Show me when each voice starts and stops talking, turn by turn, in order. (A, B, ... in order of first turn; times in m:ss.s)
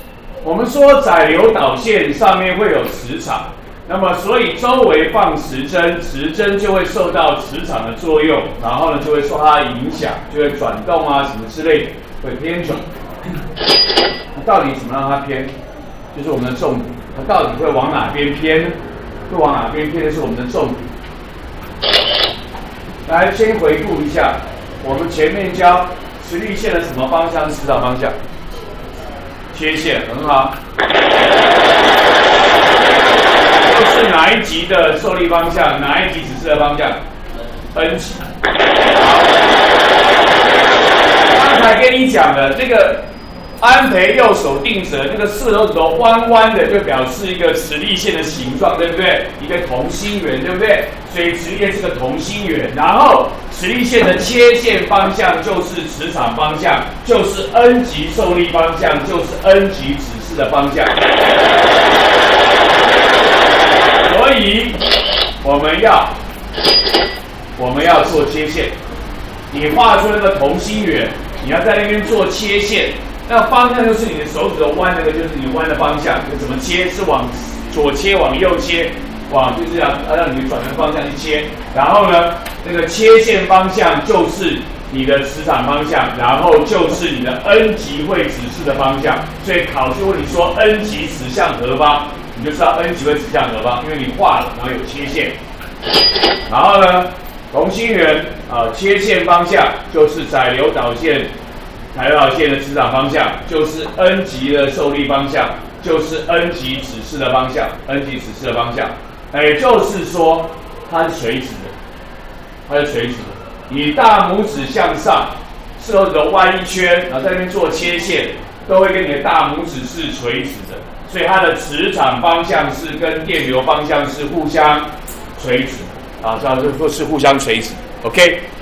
0:00.4-0:12.8 A
0:14.3-0:15.5 A
0:16.1-0:18.8 A
0:19.3-0:20.9 A
0:23.1-0:28.2 A
0:29.5-0:30.6 A
0:33.6-0:37.0 A
0:37.7-0:38.2 A
0:38.9-0:39.3 A
0:41.3-0:43.1 A
0:43.6-1:01.0 A
1:04.0-1:04.8 A
1:05.4-1:06.1 A
1:07.6-1:08.7 A
1:09.5-1:35.4 A
1:36.5-1:41.3 A
1:41.9-1:51.7 A
1:52.7-2:08.4 A